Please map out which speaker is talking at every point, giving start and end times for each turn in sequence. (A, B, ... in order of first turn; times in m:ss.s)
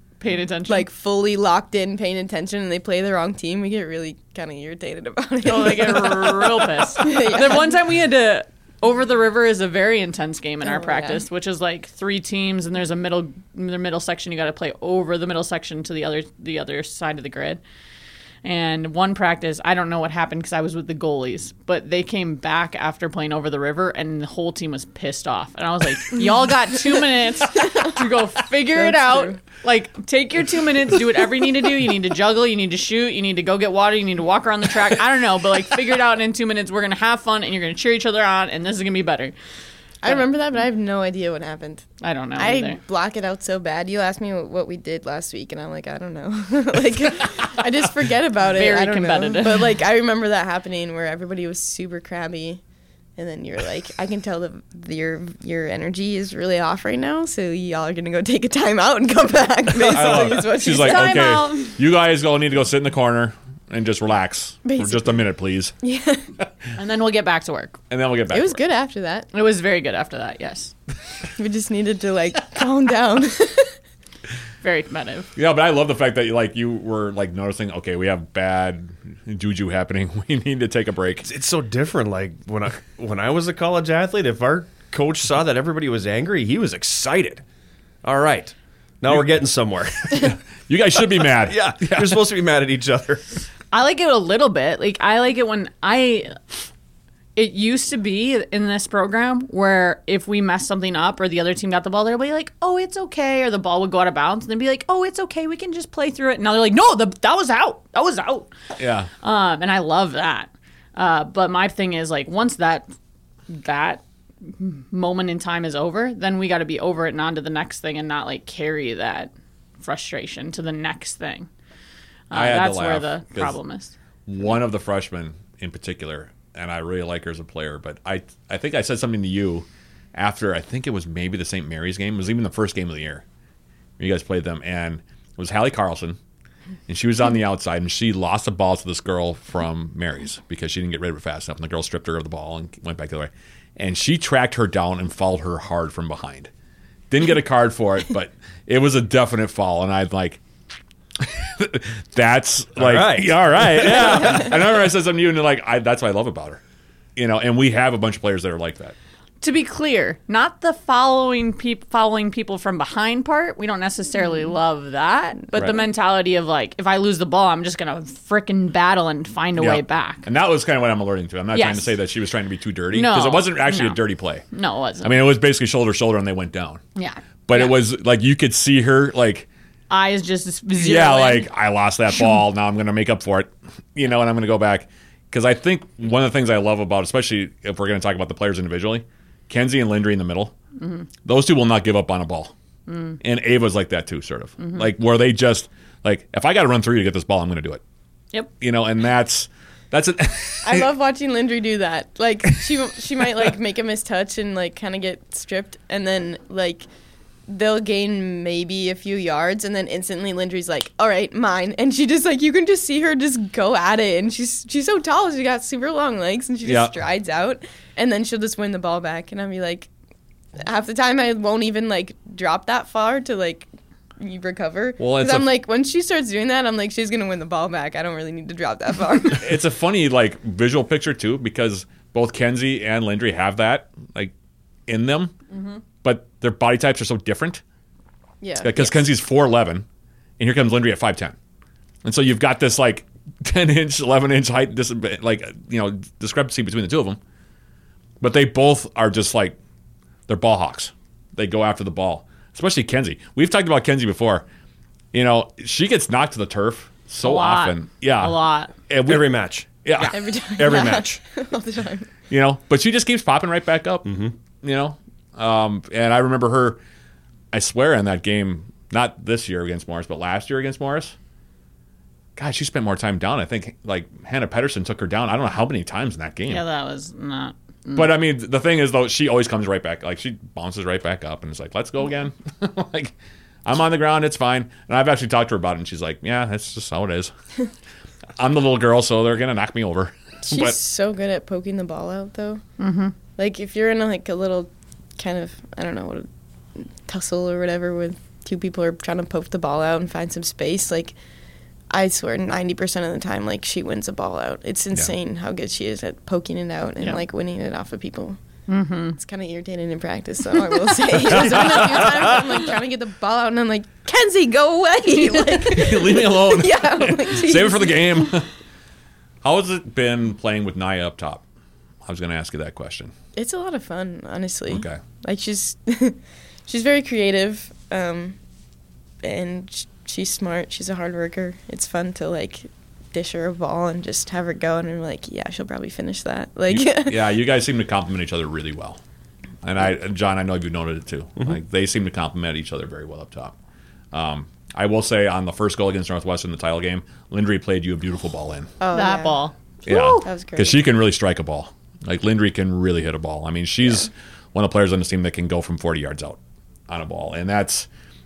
0:00.2-0:00.9 A
0:00.7-0:07.7 B
0:05.4-0:17.6 A
0:10.6-0:11.2 B
0:18.4-0:39.3 A
0:27.5-0:27.9 B
0:28.7-0:29.4 B
0:40.0-0:41.9 B
0:42.0-0:42.8 A
0:42.4-0:52.6 B
0:48.4-0:49.7 A
0:53.2-1:01.3 B
0:59.8-1:05.7 C
1:00.0-1:01.8 A
1:04.6-1:05.2 B
1:05.8-1:06.2 B
1:06.8-1:07.8 A
1:07.9-1:08.6 C
1:08.3-1:09.3 B
1:09.3-1:10.7 A
1:11.4-1:13.7 B
1:14.6-1:15.3 A
1:15.4-1:21.2 C
1:21.2-1:27.4 D
1:28.0-1:30.3 D
1:29.1-1:29.4 C
1:30.0-1:32.2 C
1:31.5-1:33.2 D
1:33.7-1:36.6 A
1:37.4-1:48.5 A
1:48.8-1:49.1 C
1:49.2-1:52.9 A
1:53.5-2:01.5 A
2:02.3-2:03.9 A
2:02.3-2:03.6 C
2:04.2-2:13.2 C
2:14.0-2:16.2 C
2:16.9-2:26.5 C
2:27.1-2:30.4 C
2:31.2-2:36.6 C
2:32.8-2:34.4 D
2:37.2-2:38.9 C
2:39.4-2:50.2 A
2:45.5-2:45.8 B
2:49.6-2:54.4 C
2:51.5-2:51.9 A
2:52.9-2:54.0 A
2:54.5-2:55.2 A
2:55.0-2:56.8 C
2:57.0-2:57.8 A
2:57.5-2:59.5 C
2:59.9-3:01.5 A
3:00.7-3:10.5 C
3:10.8-3:11.1 A
3:11.2-3:12.5 C
3:12.9-3:13.2 A
3:13.2-3:17.8 C
3:14.6-3:14.9 A
3:18.6-3:20.9 C
3:20.6-3:26.8 B
3:22.5-3:22.8 C
3:27.5-3:39.9 B
3:36.6-3:36.9 C
3:40.6-3:43.7 B
3:44.2-3:49.4 B
3:45.0-3:45.5 C
3:49.4-3:54.3 C
3:54.9-3:55.3 C
3:55.5-3:55.8 A
3:56.0-3:57.6 C
3:58.4-3:59.0 B
3:58.6-3:59.8 C
4:00.4-4:01.4 C
4:02.0-4:07.2 C
4:08.2-4:09.6 C
4:10.3-4:14.4 C
4:15.1-4:18.4 C
4:17.2-4:18.7 A
4:18.9-4:19.3 C
4:19.0-4:19.7 D
4:19.8-4:21.2 C
4:20.1-4:22.1 B
4:22.3-4:26.8 C
4:24.0-4:24.4 D
4:27.5-4:31.2 C
4:32.4-4:36.6 C
4:36.5-4:38.1 A
4:37.9-4:47.3 C
4:48.4-4:50.8 C
4:50.4-4:52.6 B
4:52.8-4:53.1 A
4:53.4-5:01.2 B
5:01.9-5:08.4 B
5:08.7-5:09.2 A
5:09.2-5:18.1 B
5:11.3-5:12.4 C
5:11.3-5:11.8 A
5:15.6-5:18.5 C
5:19.4-5:21.4 C
5:22.0-5:23.1 C
5:23.4-5:28.4 B
5:24.7-5:25.0 C
5:29.2-5:37.2 B
5:36.7-5:39.0 C
5:39.6-5:43.6 C
5:44.1-5:48.7 C
5:48.8-5:49.4 B
5:48.9-5:50.3 A
5:49.8-5:56.4 C
5:50.2-5:50.8 B
5:56.9-5:57.9 C